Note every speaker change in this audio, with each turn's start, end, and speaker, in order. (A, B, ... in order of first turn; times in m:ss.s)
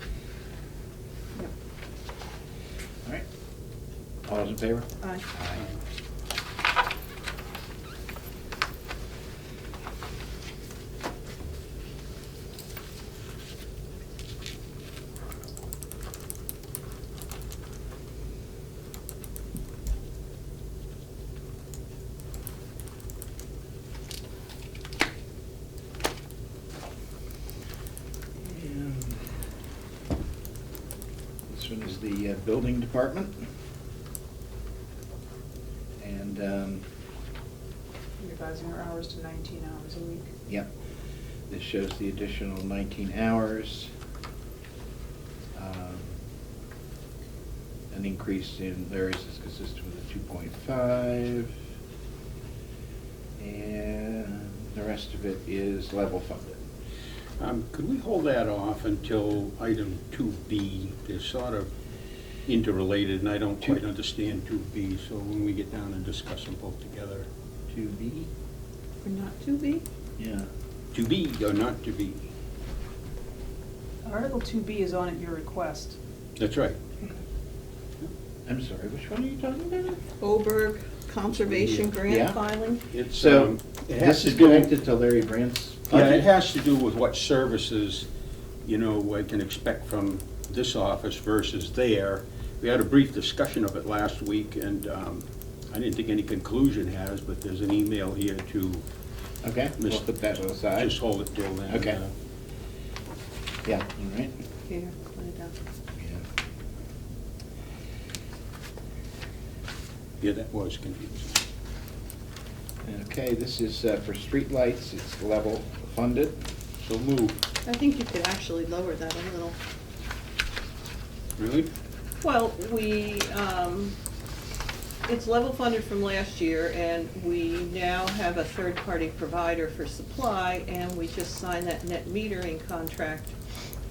0:04.2-0:05.7 A
0:28.4-0:29.3 A
0:31.5-0:33.4 A
0:36.0-0:36.8 A
0:38.2-0:40.3 B
0:41.5-0:43.9 A
0:45.5-0:46.1 A
0:47.9-0:51.5 A
0:53.4-0:56.6 A
0:57.4-1:01.7 C
1:02.5-1:07.2 C
1:07.7-1:08.3 A
1:09.0-1:09.8 D
1:10.2-1:10.5 A
1:10.9-1:12.3 C
1:14.0-1:16.0 B
1:16.4-1:16.8 C
1:18.4-1:20.0 A
1:20.2-1:22.8 D
1:21.3-1:22.0 C
1:22.1-1:22.4 A
1:22.9-1:24.7 C
1:23.1-1:26.3 A
1:25.9-1:28.1 C
1:28.6-1:38.8 C
1:39.4-1:40.9 A
1:39.8-1:40.0 C
1:40.8-1:42.1 C
1:41.7-1:42.0 A
1:43.6-1:44.3 A
1:44.7-1:45.5 D
1:46.0-1:46.2 A
1:50.2-1:51.4 C
1:52.8-1:56.4 A
1:56.8-1:57.4 C
1:57.6-1:59.6 D
2:01.4-2:01.7 C
2:02.2-2:04.0 D
2:05.0-2:13.3 D